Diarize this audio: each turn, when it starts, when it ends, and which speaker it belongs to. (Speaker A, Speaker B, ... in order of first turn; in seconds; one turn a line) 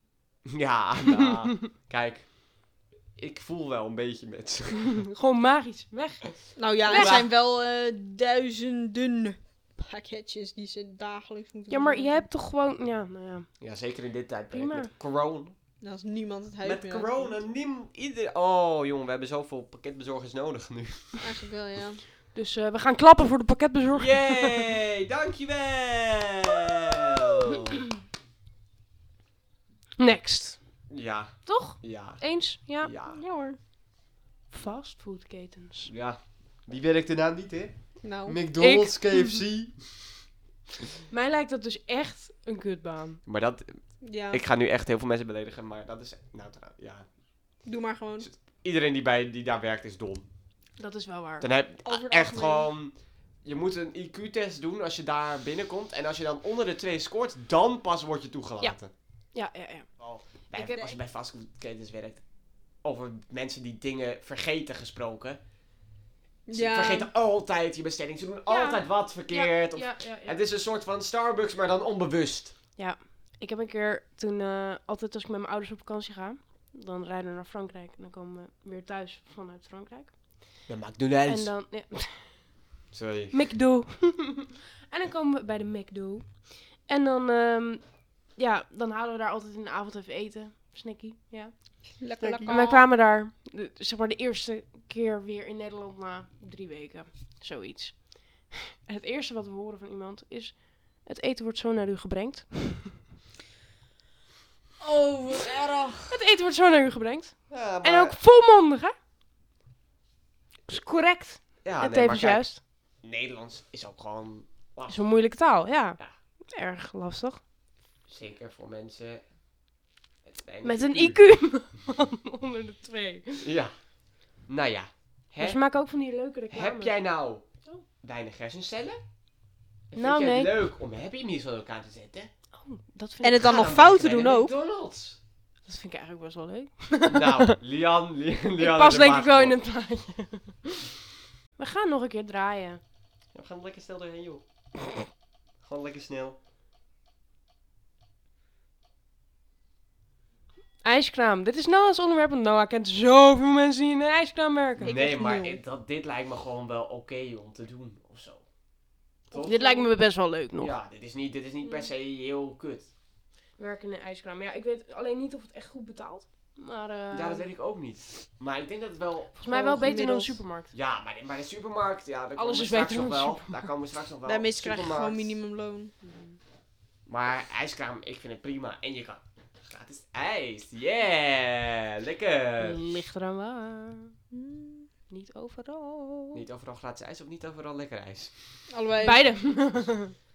Speaker A: 0.5-5.0
Speaker B: 5.0-7.2
Speaker C: 6.6-12.2
Speaker A: 6.9-7.3
Speaker B: 11.7-13.5
Speaker A: 13.6-15.6
Speaker B: 14.5-14.9
Speaker C: 15.8-17.4
Speaker A: 16.6-21.3
Speaker C: 21.2-22.0
Speaker B: 22.3-24.6
Speaker A: 23.9-27.8
Speaker B: 30.0-30.9
Speaker A: 30.9-33.2
Speaker B: 31.5-32.9
Speaker C: 33.1-33.6
Speaker B: 34.5-35.9
Speaker A: 35.9-40.2
Speaker C: 38.0-38.4
Speaker B: 38.6-39.0
Speaker B: 41.1-43.2
Speaker A: 43.2-47.1
Speaker C: 44.0-44.4
Speaker C: 47.6-48.3
Speaker A: 48.2-50.3
Speaker B: 50.8-51.5
Speaker A: 51.4-58.9
Speaker C: 51.8-52.7
Speaker B: 59.3-60.9
Speaker A: 60.0-65.4
Speaker C: 66.5-67.1
Speaker A: 66.5-72.6
Speaker B: 68.5-70.4
Speaker B: 72.8-80.6
Speaker A: 80.7-81.5
Speaker B: 81.3-82.6
Speaker A: 82.9-83.4
Speaker B: 83.3-103.0
Speaker C: 92.0-92.8
Speaker A: 92.2-92.6
Speaker C: 104.8-106.2
Speaker B: 106.1-108.9
Speaker A: 107.5-108.2
Speaker B: 110.7-112.6
Speaker A: 111.6-115.0
Speaker B: 114.9-117.4
Speaker A: 118.1-119.3
Speaker A: 120.2-121.2
Speaker B: 120.6-123.5
Speaker A: 123.4-125.6
Speaker B: 125.4-127.0
Speaker A: 126.5-127.5
Speaker A: 128.0-129.0
Speaker A: 129.9-132.3
Speaker B: 130.0-130.6
Speaker B: 132.5-133.7
Speaker C: 133.2-134.5
Speaker A: 133.4-135.2
Speaker B: 135.7-137.6
Speaker A: 137.1-139.6
Speaker B: 138.6-140.9
Speaker B: 141.6-142.8
Speaker A: 143.3-144.4
Speaker A: 145.6-146.4
Speaker B: 150.8-155.6
Speaker A: 154.8-158.5
Speaker C: 154.8-155.1
Speaker A: 159.3-159.9
Speaker B: 159.3-160.7
Speaker A: 160.6-162.9
Speaker B: 163.6-167.5
Speaker A: 167.1-169.4
Speaker B: 169.4-170.7
Speaker C: 169.5-170.4
Speaker A: 170.7-175.4
Speaker B: 172.4-173.7
Speaker C: 174.3-175.9
Speaker B: 176.0-176.4
Speaker A: 177.1-182.8
Speaker B: 182.6-184.2
Speaker C: 184.3-184.9
Speaker B: 185.1-186.4
Speaker A: 186.3-188.7
Speaker C: 188.7-189.2
Speaker B: 189.0-190.1